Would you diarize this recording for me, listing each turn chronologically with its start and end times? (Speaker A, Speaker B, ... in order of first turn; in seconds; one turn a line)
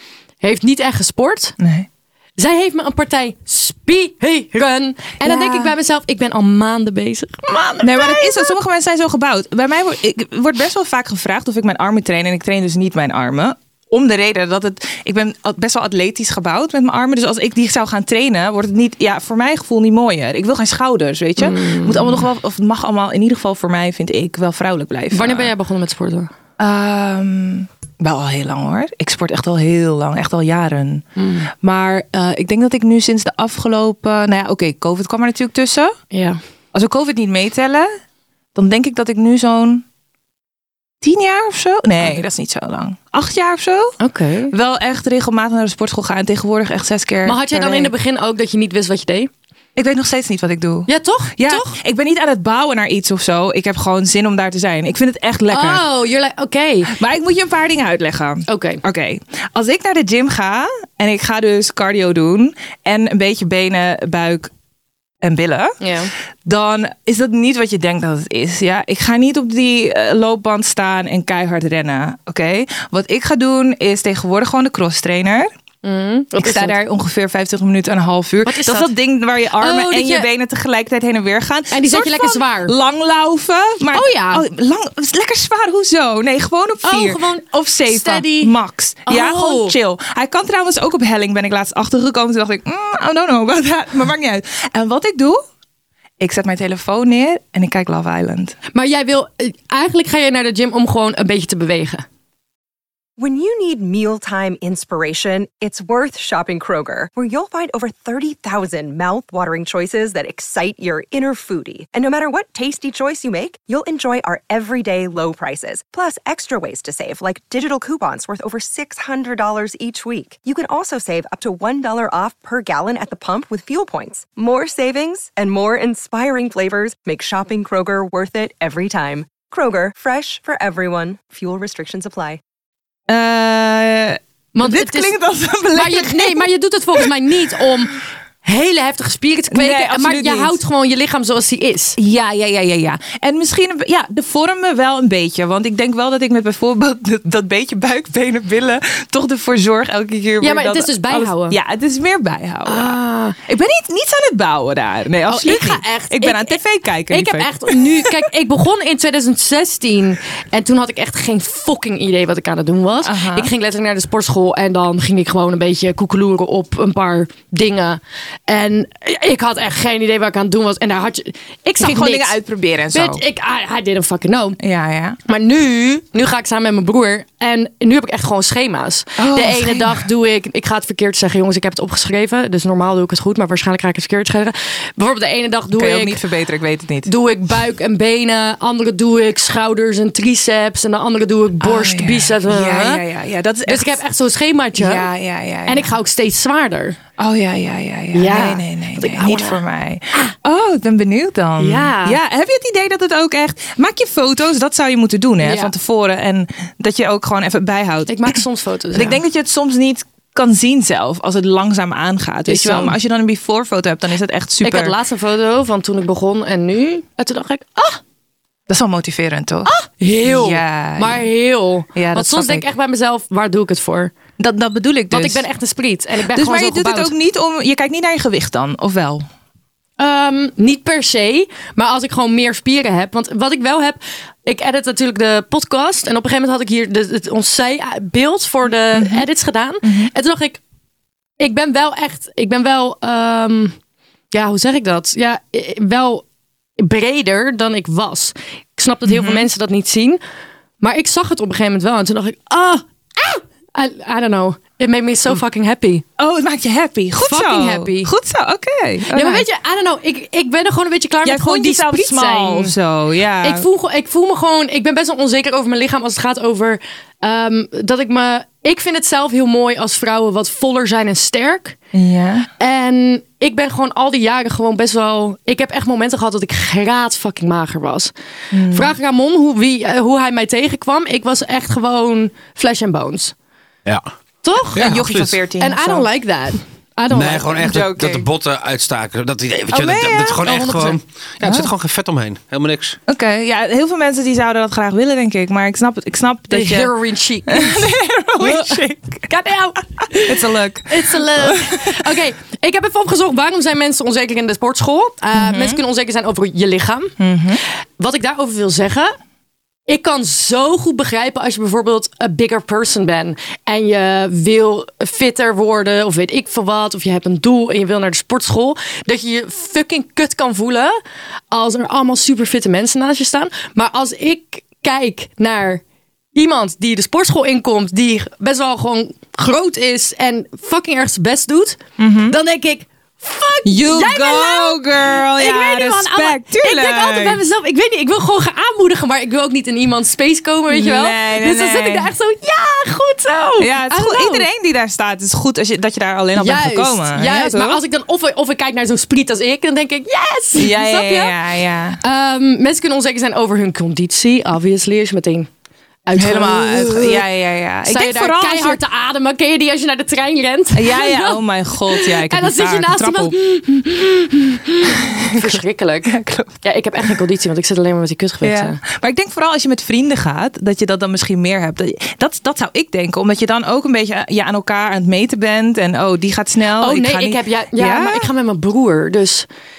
Speaker A: 0.4-1.6
Speaker B: 1.6-1.9
Speaker A: 2.4-8.5
Speaker B: 5.2-5.7
Speaker B: 7.8-25.5
Speaker A: 21.4-22.2
Speaker A: 25.1-26.3
Speaker B: 26.6-31.0
Speaker A: 31.2-31.5
Speaker B: 31.6-35.9
Speaker A: 36.1-36.4
Speaker B: 36.7-37.9
Speaker B: 38.5-39.8
Speaker B: 41.0-44.0
Speaker A: 44.0-44.5
Speaker B: 44.5-47.9
Speaker A: 47.2-49.3
Speaker B: 49.8-55.8
Speaker A: 50.9-51.8
Speaker A: 55.5-56.9
Speaker B: 56.9-64.5
Speaker A: 58.5-58.8
Speaker B: 65.2-65.8
Speaker A: 65.8-66.1
Speaker B: 66.4-75.5
Speaker A: 75.8-76.8
Speaker B: 76.4-95.4
Speaker A: 78.4-78.9
Speaker A: 79.6-80.3
Speaker A: 81.7-82.7
Speaker A: 83.9-84.4
Speaker A: 86.8-88.5
Speaker A: 89.1-89.8
Speaker B: 96.2-98.5
Speaker A: 98.7-102.0
Speaker C: 103.2-132.4
Speaker B: 133.1-137.1
Speaker A: 134.5-135.1
Speaker A: 135.7-142.0
Speaker B: 139.5-140.6
Speaker B: 142.0-158.1
Speaker A: 150.4-151.6
Speaker A: 152.7-153.4
Speaker A: 155.3-156.6
Speaker A: 157.1-172.3
Speaker B: 163.0-163.5
Speaker B: 171.8-173.2
Speaker A: 172.9-174.6
Speaker B: 174.6-175.2
Speaker A: 175.2-186.2
Speaker B: 179.2-180.1
Speaker B: 185.7-187.1
Speaker A: 187.0-193.0
Speaker B: 191.6-194.0
Speaker A: 193.7-195.1
Speaker B: 194.8-195.9
Speaker A: 195.7-197.0
Speaker B: 197.2-208.4
Speaker A: 198.1-199.6
Speaker A: 201.6-202.2
Speaker A: 205.4-205.7
Speaker A: 208.1-209.2
Speaker B: 208.9-214.9
Speaker A: 212.5-213.0
Speaker A: 214.6-218.0
Speaker B: 218.7-219.7
Speaker A: 219.7-224.1
Speaker B: 220.2-221.2
Speaker B: 221.9-222.7
Speaker B: 224.4-225.4
Speaker A: 225.1-227.1
Speaker B: 226.3-229.2
Speaker A: 230.0-240.6
Speaker B: 238.9-239.2
Speaker B: 239.8-240.1
Speaker A: 241.4-243.8
Speaker A: 244.3-246.2
Speaker A: 246.8-250.2
Speaker B: 249.1-249.5
Speaker A: 250.8-256.0
Speaker B: 256.2-259.4
Speaker A: 257.2-258.1
Speaker A: 259.1-262.8
Speaker B: 261.2-263.6
Speaker A: 263.4-271.8
Speaker B: 271.9-272.5
Speaker A: 272.6-278.1
Speaker B: 278.5-278.9
Speaker A: 278.7-283.3
Speaker A: 284.4-284.9
Speaker D: 284.7-285.4
Speaker B: 284.7-286.1
Speaker A: 285.6-287.7
Speaker D: 287.1-293.0
Speaker B: 287.6-288.2
Speaker B: 289.7-290.6
Speaker A: 290.3-291.0
Speaker B: 291.4-291.7
Speaker B: 293.1-296.9
Speaker A: 296.5-297.9
Speaker B: 297.5-299.3
Speaker A: 298.4-307.1
Speaker B: 300.1-302.1
Speaker B: 305.3-305.8
Speaker B: 307.2-307.6
Speaker A: 308.0-309.1
Speaker A: 309.9-321.0
Speaker A: 321.5-325.8
Speaker A: 326.4-344.5
Speaker B: 332.0-332.4
Speaker B: 333.6-337.4
Speaker B: 340.7-342.1
Speaker B: 343.6-347.8
Speaker A: 346.4-351.4
Speaker B: 350.5-352.0
Speaker A: 352.0-355.5
Speaker A: 356.1-357.2
Speaker B: 356.1-358.8
Speaker A: 357.9-368.8
Speaker B: 360.7-363.4
Speaker B: 365.1-366.6
Speaker B: 368.4-378.3
Speaker A: 376.8-379.5